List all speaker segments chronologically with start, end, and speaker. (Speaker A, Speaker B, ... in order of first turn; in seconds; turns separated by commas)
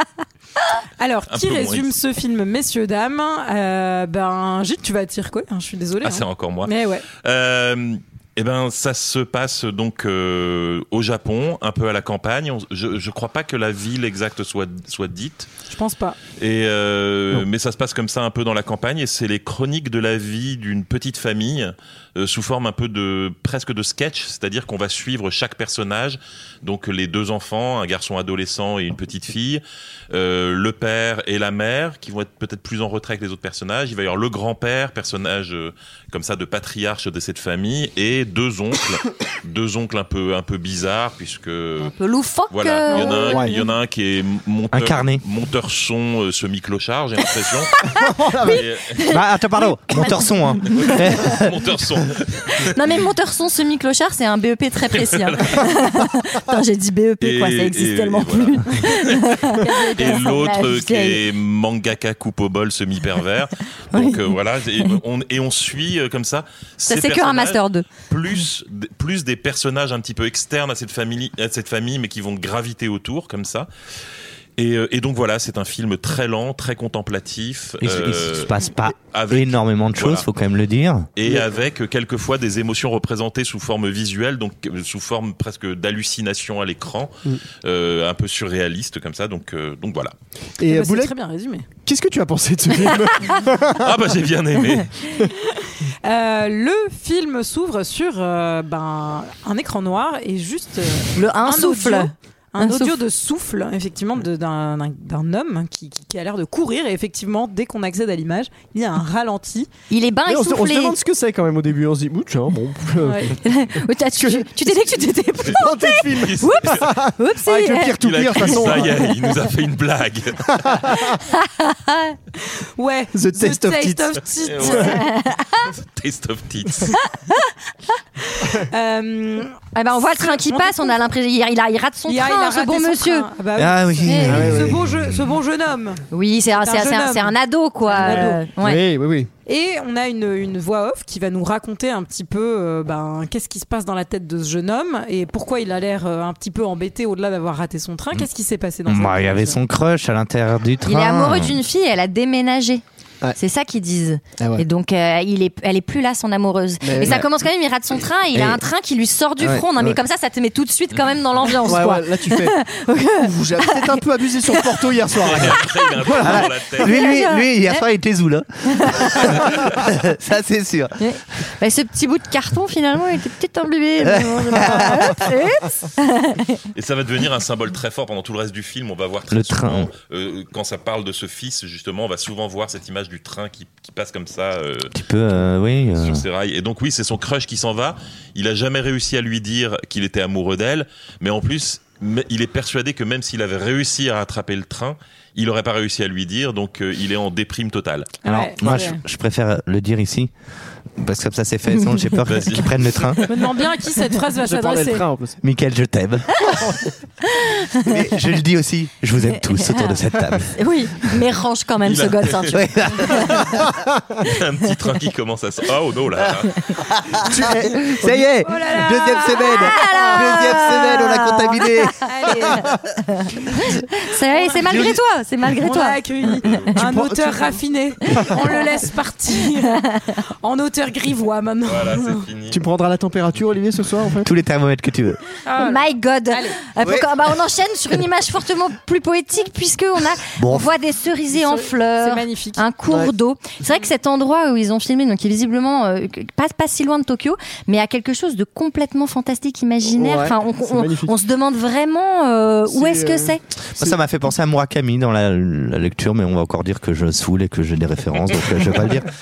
Speaker A: 1.0-7.1, Speaker B: 1.3-1.9, Speaker B: 6.0-15.5, Speaker A: 15.7-16.2, Speaker B: 16.4-41.9, Speaker C: 41.8-43.5, Speaker B: 42.5-47.9, Speaker D: 43.0-43.5, Speaker E: 44.7-45.2, Speaker C: 47.8-51.4, Speaker D: 47.9-48.6, Speaker B: 48.4-49.0, Speaker E: 49.1-51.5, Speaker B: 50.7-52.7, Speaker C: 52.6-61.2, Speaker B: 54.9-55.8, Speaker B: 57.2-73.7, Speaker C: 63.9-64.3, Speaker C: 66.9-67.9, Speaker B: 74.6-78.6, Speaker E: 77.8-81.1, Speaker B: 79.1-80.3, Speaker B: 81.2-90.1, Speaker D: 90.6-91.1, Speaker A: 90.7-91.7, Speaker D: 91.8-94.0, Speaker B: 93.8-94.9, Speaker D: 95.1-95.3, Speaker A: 96.0-109.7, Speaker C: 101.2-103.0, Speaker C: 109.9-111.0, Speaker D: 110.3-113.4, Speaker A: 113.0-113.3, Speaker C: 113.4-118.0, Speaker D: 114.2-119.1, Speaker B: 116.2-116.9, Speaker B: 118.0-120.9, Speaker D: 120.5-121.2, Speaker C: 121.3-122.2, Speaker A: 122.6-124.9, Speaker D: 123.1-124.8, Speaker B: 124.4-125.1, Speaker C: 124.9-125.7, Speaker B: 125.7-127.0, Speaker C: 126.9-127.5, Speaker A: 128.3-131.0, Speaker C: 129.8-133.3, Speaker A: 132.1-136.0, Speaker E: 133.6-135.1, Speaker C: 134.0-134.5, Speaker D: 134.3-134.8, Speaker C: 136.1-138.8, Speaker A: 136.6-138.4, Speaker D: 138.0-139.3, Speaker A: 139.5-149.6, Speaker E: 148.9-151.6, Speaker C: 150.8-152.8, Speaker C: 153.4-164.9, Speaker D: 154.4-154.7, Speaker D: 156.8-157.3, Speaker E: 157.0-157.3, Speaker E: 158.3-158.6, Speaker E: 159.4-160.0, Speaker D: 161.6-162.6, Speaker D: 163.2-166.4, Speaker B: 165.2-167.1, Speaker E: 166.2-171.0, Speaker C: 166.8-167.8, Speaker C: 168.7-169.3, Speaker C: 171.0-176.6, Speaker E: 174.0-175.2, Speaker B: 176.8-184.9, Speaker E: 179.3-179.9, Speaker E: 184.9-186.3, Speaker B: 185.9-198.2, Speaker A: 198.2-199.0, Speaker E: 198.2-200.3, Speaker E: 201.0-203.2, Speaker B: 202.2-203.2, Speaker A: 203.3-205.0, Speaker D: 204.4-205.4, Speaker E: 205.4-206.6, Speaker C: 207.3-207.9, Speaker E: 207.8-210.6, Speaker C: 210.6-213.5, Speaker B: 211.8-212.6, Speaker E: 212.5-213.4, Speaker B: 214.2-216.9, Speaker D: 217.2-218.3, Speaker E: 217.4-222.0, Speaker A: 218.4-219.7, Speaker C: 219.4-222.0, Speaker A: 222.1-222.7, Speaker C: 223.1-226.0, Speaker A: 224.3-224.9, Speaker A: 225.5-229.8, Speaker B: 226.4-226.7, Speaker D: 226.8-227.6, Speaker A: 230.4-232.2, Speaker B: 231.7-232.6, Speaker D: 232.5-234.3, Speaker E: 234.2-235.2, Speaker A: 235.5-236.6, Speaker C: 235.6-253.4, Speaker E: 236.8-237.1, Speaker E: 240.4-240.7, Speaker A: 241.3-242.6, Speaker D: 242.9-243.1, Speaker D: 249.9-251.2, Speaker D: 252.7-254.0, Speaker E: 253.8-259.1